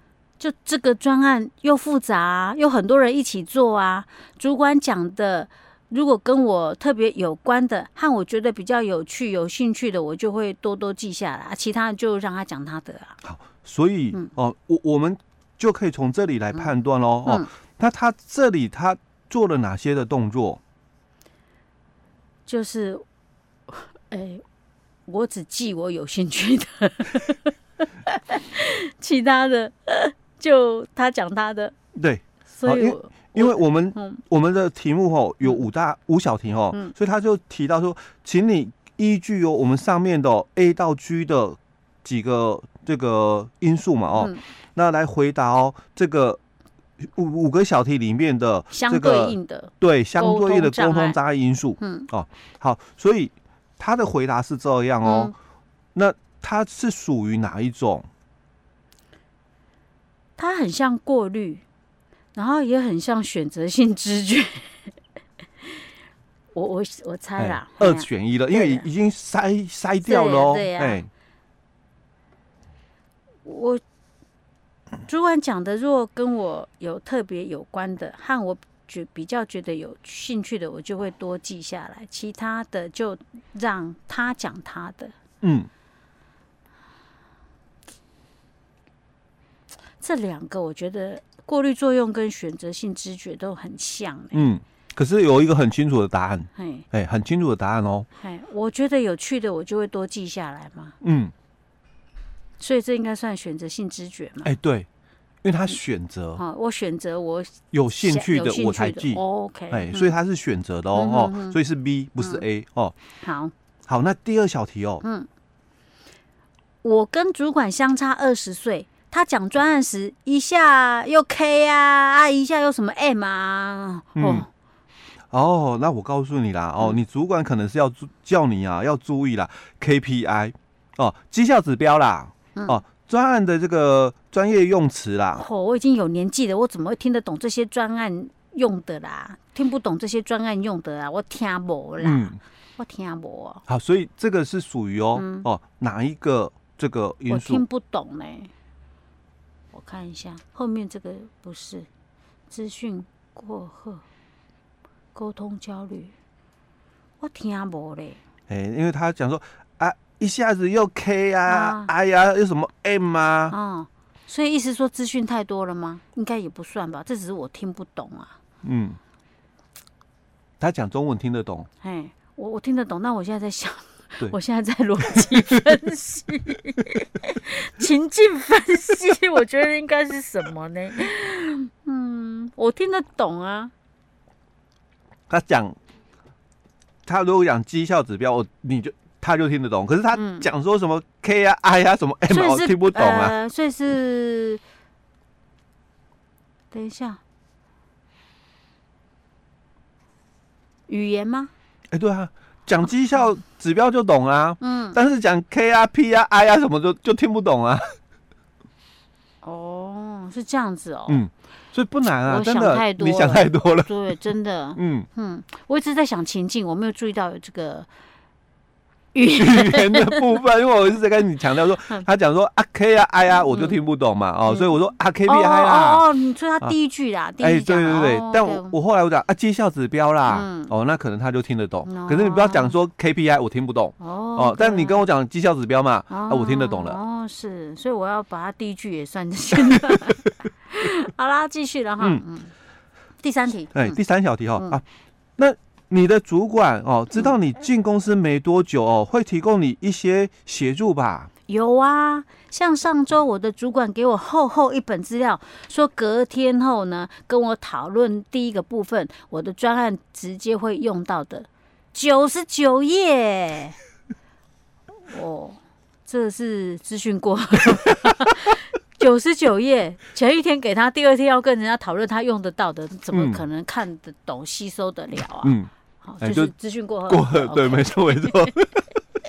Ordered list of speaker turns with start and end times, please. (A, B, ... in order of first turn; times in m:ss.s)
0:00.4-0:13.2 A
0:13.2-0:20.6 B
0:22.4-0:23.0 A
0:23.7-0:24.4 A
0:25.1-0:27.5 A
0:28.0-0:31.7 A
0:31.9-0:46.4 B
0:32.5-0:34.2 A
0:47.0-0:55.3 B
0:48.7-0:51.2 A
0:51.8-0:52.1 A
0:55.0-0:55.3 A
0:55.9-0:58.1 B
1:00.4-1:01.6 A
1:02.3-1:04.7 A
1:06.5-1:08.8 A
1:07.4-1:11.1 B
1:10.0-1:11.0 A
1:13.4-1:13.8 A
1:15.0-1:25.1 A
1:25.4-1:25.7 B
1:30.0-1:34.4 A
1:34.3-1:38.1 B
1:36.6-1:36.8 A
1:38.2-1:41.0 A
1:41.0-1:41.3 B
1:42.6-1:44.5 A
1:44.4-1:44.9 B
1:45.4-1:46.4 B
1:46.4-1:50.1 A
1:47.7-1:52.9 B
1:50.9-1:51.6 A
1:53.2-1:53.5 A
1:53.9-1:55.0 B
1:55.0-1:55.3 A
1:56.8-2:04.5 A
2:04.1-2:04.4 B
2:05.3-2:15.4 B
2:15.4-2:23.6 A
2:22.0-2:22.4 B
2:23.7-2:27.6 B
2:25.1-2:25.5 A
2:27.3-2:28.5 A
2:29.7-2:31.9 A
2:32.5-2:34.0 A
2:35.1-2:36.1 A
2:37.2-2:38.2 A
2:38.5-2:43.5 B
2:41.5-2:41.9 A
2:43.5-2:48.4 A
2:48.6-2:49.0 B
2:50.6-2:51.7 B
2:51.8-3:03.7 A
3:05.3-3:05.8 B
3:07.0-3:13.4 B
3:10.1-3:10.5 A
3:12.3-3:14.6 A
3:16.7-3:17.2 A
3:20.9-3:21.5 A
3:21.9-3:27.9 B
3:24.6-3:25.0 A
3:29.4-3:31.2 A
3:31.1-3:33.9 B
3:32.1-3:37.9 A
3:34.8-3:35.1 B
3:39.1-3:40.2 A
3:39.3-3:46.0 B
3:44.5-3:44.7 A
3:45.3-3:48.8 A
3:47.4-3:57.0 B
3:50.3-3:50.7 A
3:51.8-3:52.7 A
3:54.0-3:55.0 A
3:56.1-4:02.5 A
4:03.2-4:04.0 A
4:03.7-4:04.8 B
4:05.4-4:11.3 B
4:11.5-4:23.8 A
4:25.1-4:38.5 A
4:33.1-4:33.4 B
4:35.4-4:35.7 B
4:36.2-4:36.5 B
4:37.1-4:39.0 B